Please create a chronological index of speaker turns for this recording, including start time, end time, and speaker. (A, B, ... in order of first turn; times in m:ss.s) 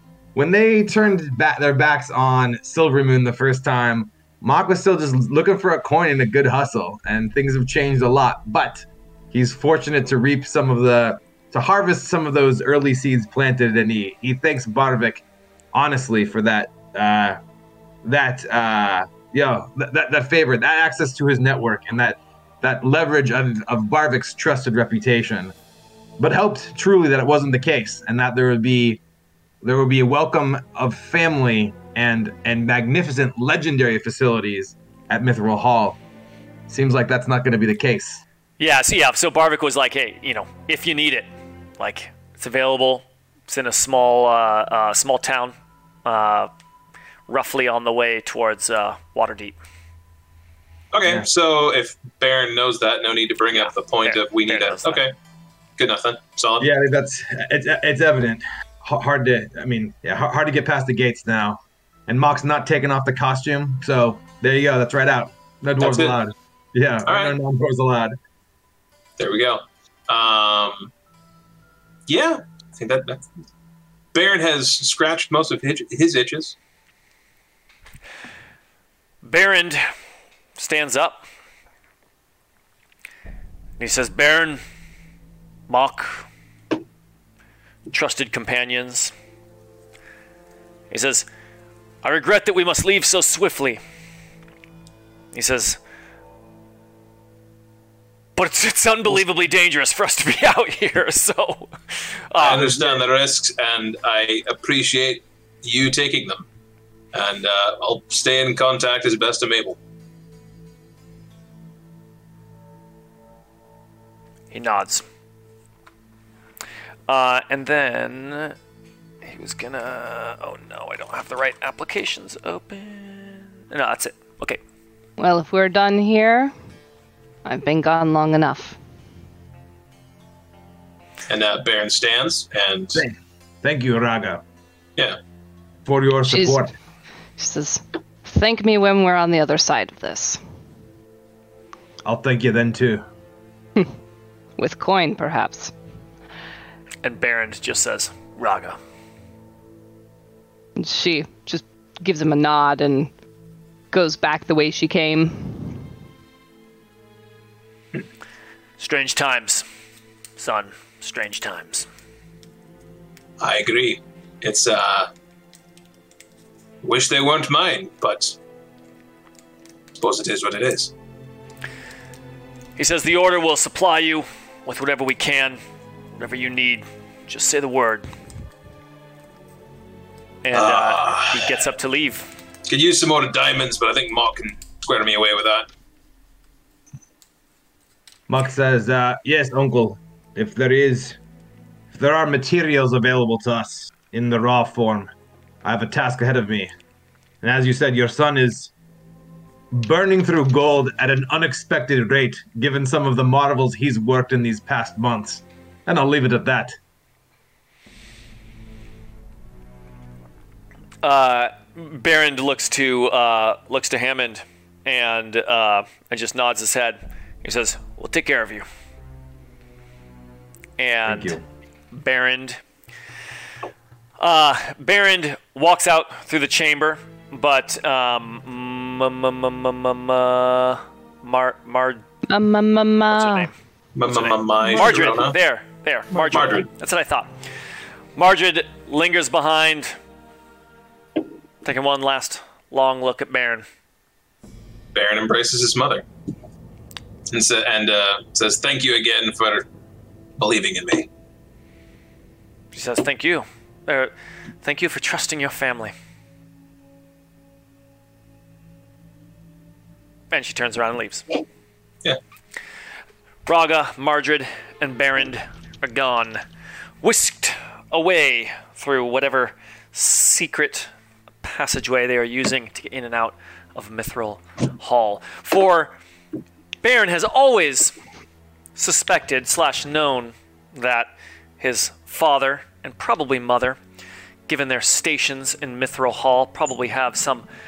0:00.3-0:17.4 A
0:18.0-0:25.5 A
0:26.2-0:29.0 A
0:29.6-0:36.0 A
0:36.7-0:38.2 A
0:38.6-0:41.3 B
0:41.8-0:46.5 B
0:47.3-0:49.6 B
0:50.9-0:55.1 C
0:53.5-0:55.0 B
0:55.8-0:56.7 C
0:56.6-1:08.2 A
1:05.8-1:06.2 C
1:07.0-1:07.3 C
1:09.2-1:10.9 C
1:12.1-1:13.2 C
1:14.1-1:16.6 C
1:19.2-1:19.8 B
1:20.6-1:21.2 B
1:23.8-1:24.6 B
1:25.7-1:26.2 B
1:27.9-1:29.1 B
1:30.9-1:31.2 B
1:32.0-1:33.8 B
1:35.3-1:35.8 B
1:38.4-1:42.9 B
1:42.4-1:46.4 C
1:42.4-1:43.0 A
1:47.1-1:49.8 C
1:54.5-1:55.0 B
1:57.1-1:58.6 B
1:59.2-2:04.6 B
2:05.2-2:06.5 D
2:07.4-2:08.8 D
2:11.3-2:13.0 C
2:12.9-2:14.4 A
2:15.8-2:16.7 A
2:16.3-2:16.6 D
2:17.4-2:20.4 D
2:22.0-2:23.0 A
2:24.6-2:25.7 D
2:27.0-2:28.8 B
2:30.8-2:33.1 D
2:33.9-2:35.8 D
2:38.8-2:39.6 B
2:40.4-2:41.9 B
2:43.4-2:45.1 C
2:46.8-2:48.4 C
2:50.0-2:50.9 C
2:52.8-2:55.6 B
2:56.2-2:58.1 B
3:00.4-3:02.3 B
3:00.5-3:01.5 C
3:02.6-3:05.7 C
3:08.3-3:11.2 A
3:11.9-3:15.1 A
3:15.6-3:16.7 A
3:17.4-3:18.7 A
3:19.7-3:26.8 A
3:31.0-3:38.6 B
3:40.8-3:41.4 B
3:41.0-3:41.4 A
3:41.9-3:42.6 B
3:44.2-3:52.0 B
3:52.3-3:53.5 D
3:53.1-3:53.5 B
3:53.9-3:55.4 C
3:54.0-3:57.3 B
3:56.1-3:56.7 C
3:58.2-3:59.9 B
4:01.6-4:03.6 B
4:04.9-4:06.0 C
4:07.3-4:09.7 C
4:10.4-4:11.1 C
4:12.7-4:14.1 B
4:14.6-4:15.9 B
4:20.3-4:21.4 B
4:23.4-4:26.4 B
4:27.0-4:30.9 B
4:31.4-4:35.9 B
4:36.8-4:37.9 B
4:38.8-4:41.1 B
4:41.6-4:43.8 B
4:44.5-4:47.4 B